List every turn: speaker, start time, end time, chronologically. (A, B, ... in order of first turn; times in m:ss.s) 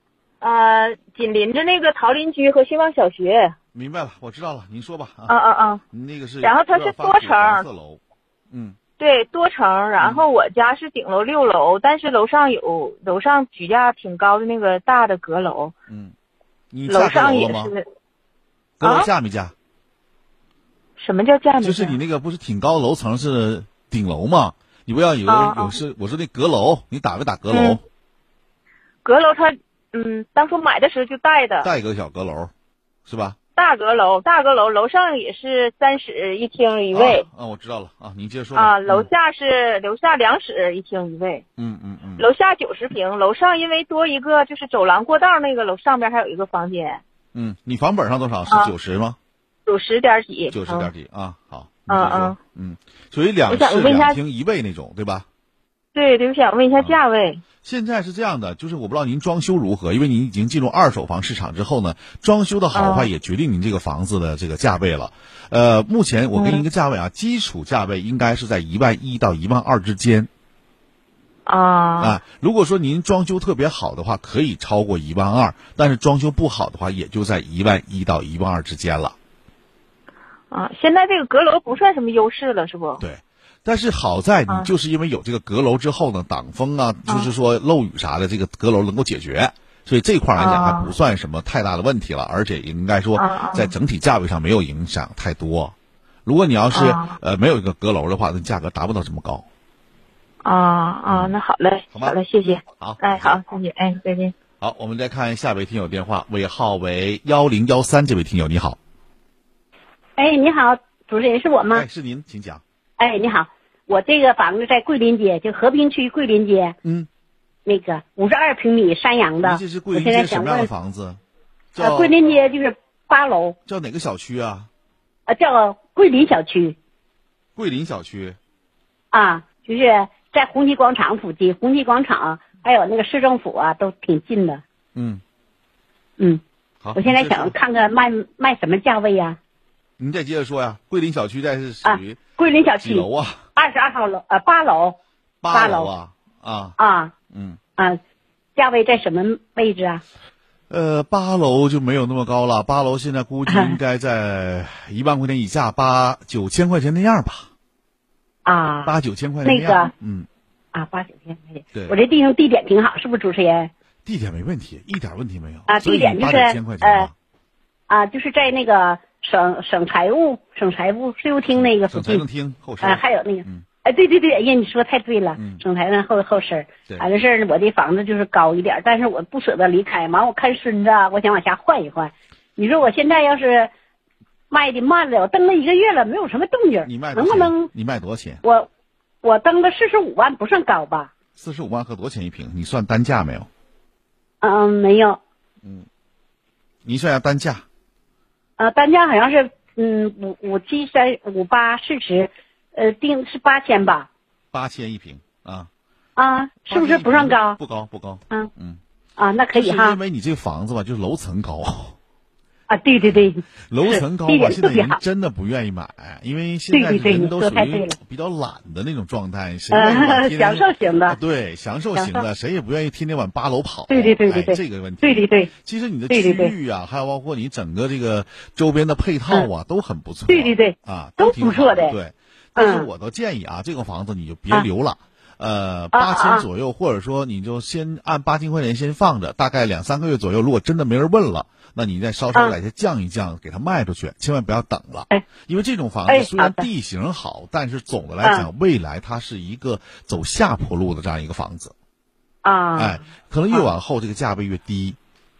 0:00.4-0:03.5 A
0:03.7-0:05.4 B
0:05.3-0:05.8 A
0:05.9-0:08.8 B
0:06.4-0:07.6 A
0:09.0-0:15.7 A
0:15.9-0:16.1 B
0:16.7-0:17.7 B
0:16.9-0:17.8 A
0:18.8-0:19.5 B
0:18.8-0:19.1 A
0:21.0-0:22.0 A
0:21.6-0:27.8 B
0:25.3-0:25.8 A
0:27.5-0:27.8 A
0:29.0-0:31.7 A
0:31.6-0:32.5 B
0:33.0-0:33.4 B
0:33.6-0:37.2 A
0:36.9-0:39.1 B
0:38.5-0:41.4 A
0:41.6-0:42.3 B
0:42.2-0:47.0 A
0:47.3-0:49.2 B
0:49.7-0:50.9 A
0:50.5-0:55.3 B
0:51.9-0:52.4 A
0:53.5-0:54.2 A
0:55.9-0:57.4 A
0:57.6-1:10.3 B
1:02.7-1:03.1 A
1:06.3-1:06.6 A
1:11.4-1:12.2 A
1:12.0-1:19.1 B
1:20.5-1:23.0 A
1:23.0-1:35.7 B
1:30.4-1:30.9 A
1:33.2-1:33.7 A
1:36.2-1:39.4 B
1:36.7-1:37.2 A
1:40.4-1:44.3 A
1:41.9-1:43.4 B
1:44.6-1:48.8 B
1:50.2-1:51.8 C
1:51.7-1:52.6 B
1:53.0-1:56.8 C
1:57.6-2:00.7 C
1:59.4-2:01.2 B
2:01.7-2:02.2 B
2:01.8-2:03.6 C
2:03.6-2:04.7 B
2:05.3-2:06.8 C
2:07.6-2:08.4 B
2:09.1-2:14.6 C
2:14.9-2:15.2 B
2:16.8-2:17.6 B
2:16.9-2:19.4 C
2:20.0-2:22.2 B
2:21.8-2:25.0 C
2:22.8-2:23.5 B
2:25.4-2:26.8 B
2:25.5-2:25.9 C
2:26.8-2:27.1 C
2:27.3-2:27.6 B
2:28.6-2:30.0 C
2:30.7-2:37.5 B
2:33.5-2:33.8 C
2:38.4-2:38.9 C
2:38.8-2:40.3 B
2:39.4-2:39.9 C
2:40.7-2:43.7 C
2:41.7-2:42.0 B
2:44.0-2:47.1 B
2:45.7-2:47.1 C
2:47.9-2:52.2 C
2:51.5-2:53.6 B
2:52.8-3:03.7 C
2:55.3-2:55.6 B
3:04.5-3:07.7 C
3:06.8-3:08.4 B
3:08.4-3:08.7 C
3:09.2-3:11.1 C
3:11.4-3:13.5 B
3:14.4-3:15.2 C
3:16.8-3:17.6 B
3:18.6-3:24.1 C
3:24.5-3:25.7 B
3:26.2-3:27.6 C
3:26.7-3:28.8 B
3:29.2-3:30.0 C
3:29.5-3:32.0 B
3:32.7-3:35.0 C
3:33.7-4:11.7 B
3:36.7-3:37.9 C
3:39.7-3:41.2 C
3:41.9-3:42.2 C
3:43.9-3:45.5 C
3:46.1-3:46.5 C
3:50.3-3:51.9 C
3:52.6-3:52.9 C
3:55.9-3:56.4 C
4:06.1-4:06.6 C
4:12.4-4:13.0 C
4:12.8-4:15.0 B